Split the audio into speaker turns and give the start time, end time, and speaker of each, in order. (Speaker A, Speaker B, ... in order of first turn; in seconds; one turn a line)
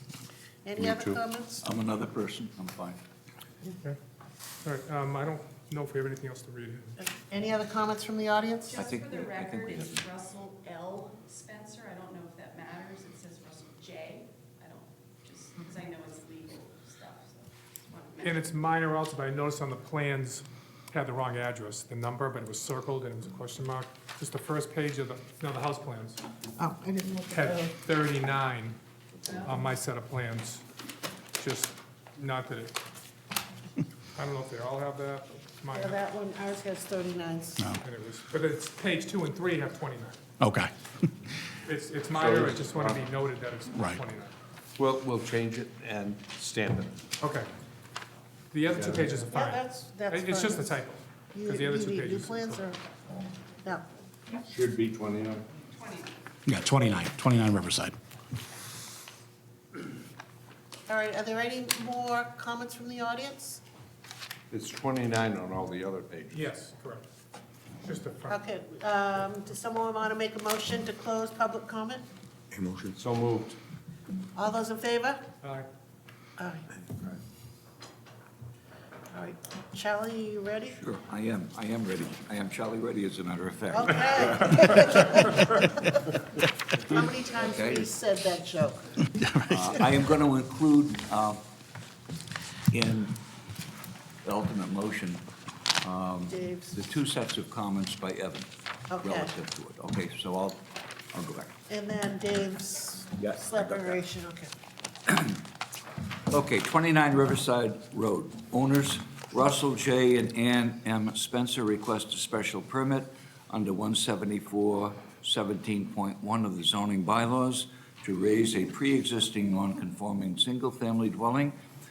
Speaker A: 0.6-1.7
Speaker B: 0.8-1.2
Speaker C: 1.6-3.0
Speaker D: 3.6-4.0
Speaker D: 4.6-7.0
Speaker A: 7.0-8.8
Speaker E: 8.7-18.4
Speaker C: 8.7-10.0
Speaker D: 18.2-26.2
Speaker A: 26.6-27.7
Speaker D: 27.3-28.8
Speaker D: 29.4-30.6
Speaker D: 31.4-32.8
Speaker D: 34.1-36.0
Speaker A: 35.7-37.7
Speaker D: 37.8-40.2
Speaker F: 40.4-40.7
Speaker D: 41.6-44.3
Speaker B: 42.1-43.0
Speaker B: 44.8-47.0
Speaker D: 47.2-47.5
Speaker D: 48.5-52.6
Speaker B: 48.7-49.1
Speaker A: 49.3-50.8
Speaker A: 51.3-52.8
Speaker B: 54.4-55.5
Speaker F: 56.5-57.9
Speaker A: 60.9-63.6
Speaker B: 64.5-66.4
Speaker D: 66.3-67.1
Speaker D: 67.8-68.4
Speaker A: 68.3-72.0
Speaker B: 72.5-73.6
Speaker A: 74.3-75.2
Speaker A: 76.4-76.7
Speaker B: 76.8-77.2
Speaker A: 79.1-80.8
Speaker C: 80.8-84.8
Speaker A: 83.7-85.9
Speaker A: 86.8-88.9
Speaker C: 87.4-87.9
Speaker F: 89.1-89.8
Speaker C: 89.5-91.4
Speaker C: 92.7-93.2
Speaker C: 94.2-95.2
Speaker C: 95.8-98.5
Speaker A: 96.3-96.8
Speaker A: 98.9-99.3
Speaker C: 99.0-101.5
Speaker A: 101.7-104.5
Speaker C: 103.2-104.0
Speaker C: 106.3-121.5